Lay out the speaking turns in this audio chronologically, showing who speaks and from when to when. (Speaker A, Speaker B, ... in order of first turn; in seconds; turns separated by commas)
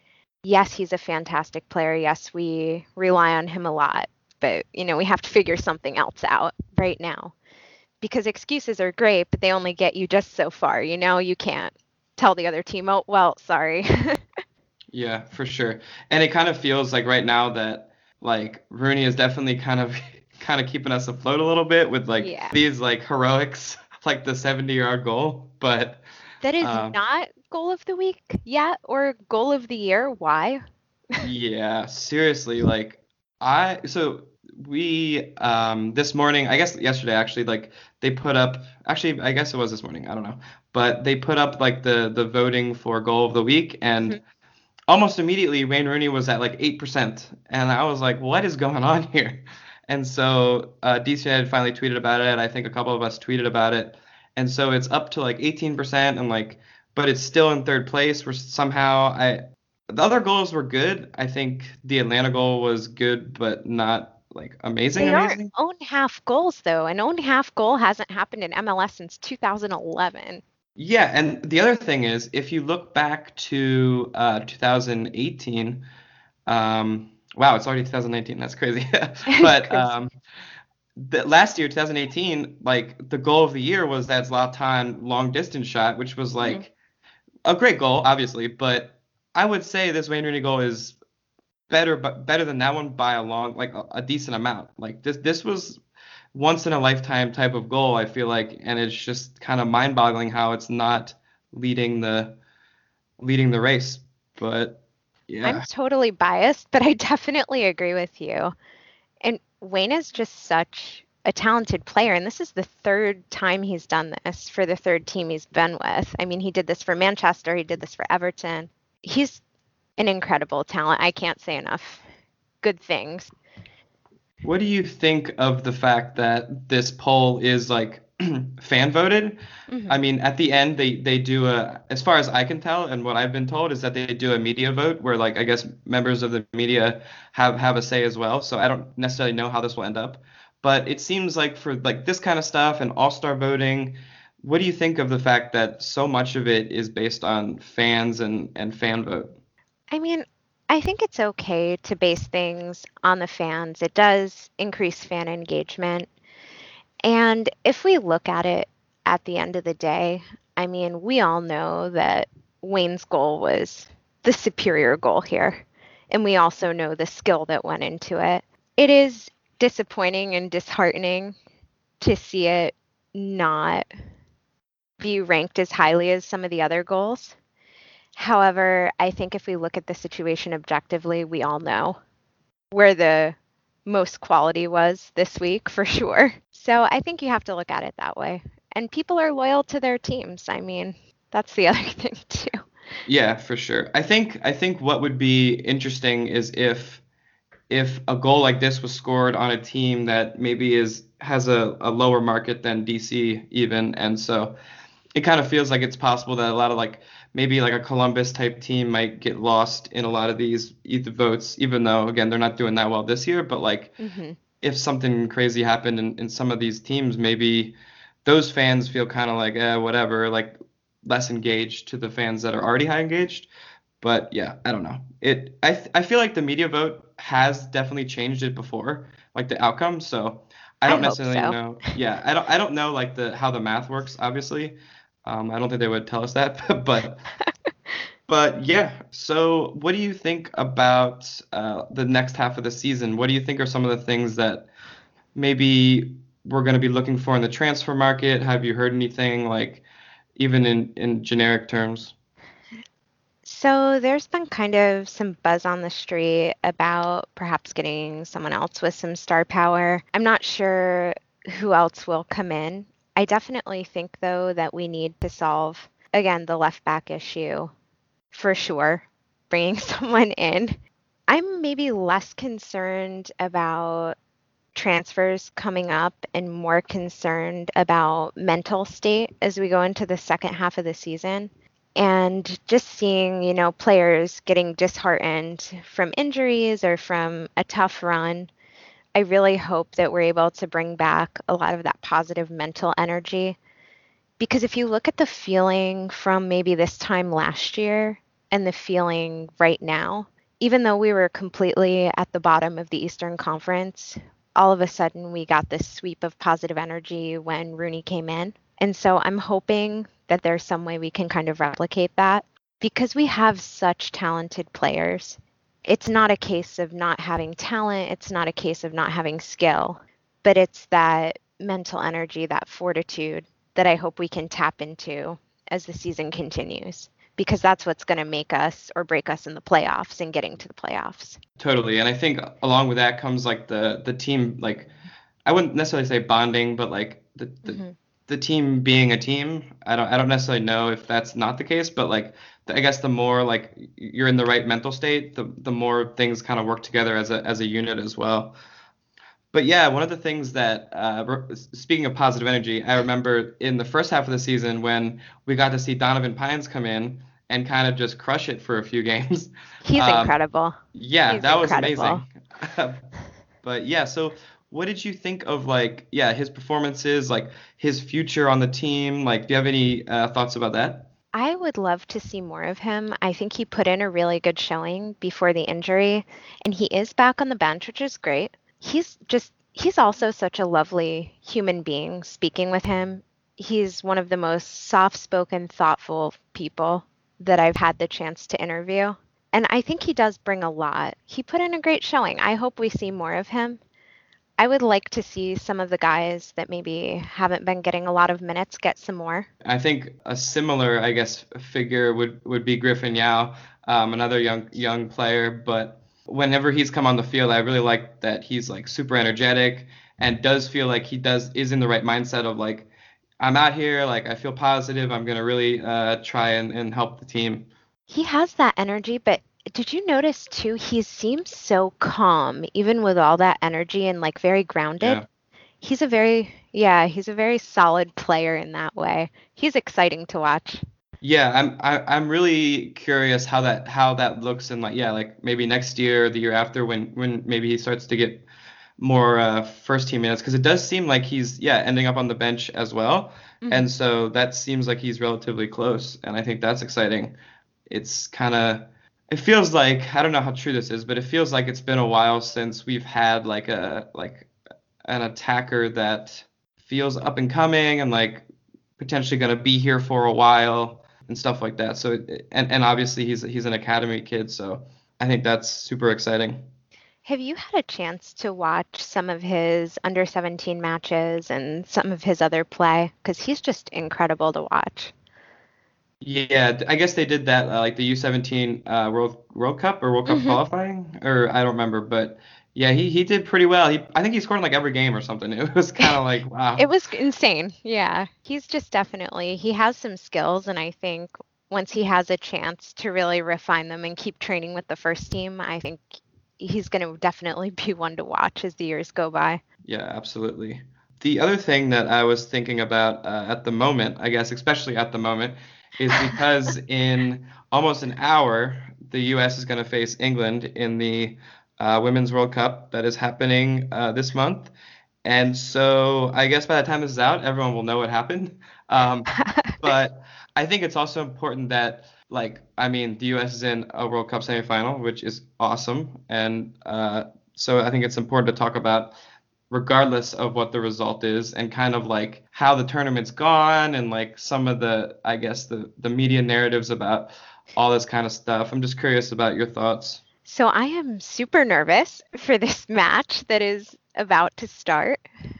Speaker A: 0.4-7.3, Speaker A: 8.0-14.2, Speaker B: 14.9-26.0, Speaker A: 22.2-22.6, Speaker A: 26.4-30.6, Speaker B: 26.6-26.9, Speaker B: 31.2-44.2, Speaker B: 44.9-59.4, Speaker B: 59.9-65.5, Speaker A: 65.0-70.4, Speaker B: 70.8-75.8, Speaker B: 76.5-80.1, Speaker A: 79.3-79.9, Speaker B: 81.0-86.7, Speaker A: 86.4-86.6, Speaker B: 87.5-91.0, Speaker B: 91.7-95.8, Speaker B: 96.3-102.4, Speaker B: 103.2-105.7, Speaker A: 105.4-108.5, Speaker A: 109.2-119.4, Speaker A: 120.0-122.0, Speaker A: 122.6-123.3, Speaker B: 124.4-149.3, Speaker A: 129.7-130.0, Speaker A: 149.9-156.1, Speaker A: 157.0-171.4, Speaker A: 172.0-173.8, Speaker A: 175.0-177.4, Speaker A: 178.2-182.0, Speaker A: 182.7-192.5, Speaker B: 193.1-197.0, Speaker B: 197.7-204.6, Speaker B: 205.2-213.9, Speaker A: 214.0-214.4, Speaker B: 214.6-223.5, Speaker B: 224.0-237.2, Speaker A: 230.9-231.6, Speaker B: 238.3-244.7, Speaker B: 245.3-249.8, Speaker B: 250.4-252.1, Speaker A: 253.4-267.7, Speaker A: 268.3-274.1, Speaker A: 274.7-288.5, Speaker A: 289.1-293.6, Speaker A: 294.4-331.4, Speaker B: 331.6-334.9, Speaker B: 335.4-348.6, Speaker A: 337.6-337.9, Speaker B: 349.5-360.4, Speaker A: 359.8-362.2, Speaker B: 360.9-363.0, Speaker B: 363.6-371.1, Speaker A: 371.3-393.8, Speaker A: 394.6-399.5, Speaker B: 399.6-412.9, Speaker B: 413.4-417.7, Speaker A: 418.1-425.2, Speaker B: 425.0-425.2, Speaker A: 425.8-430.8, Speaker B: 431.2-438.4, Speaker B: 439.0-447.4, Speaker A: 443.6-443.9, Speaker B: 447.9-454.5, Speaker B: 455.1-458.4, Speaker B: 459.0-466.7, Speaker A: 467.2-475.1, Speaker B: 476.2-486.9, Speaker A: 480.3-480.6, Speaker A: 486.8-496.0, Speaker A: 496.6-499.6, Speaker B: 499.9-514.7, Speaker B: 515.2-529.1, Speaker A: 519.4-519.9, Speaker B: 529.7-540.2, Speaker A: 540.4-545.2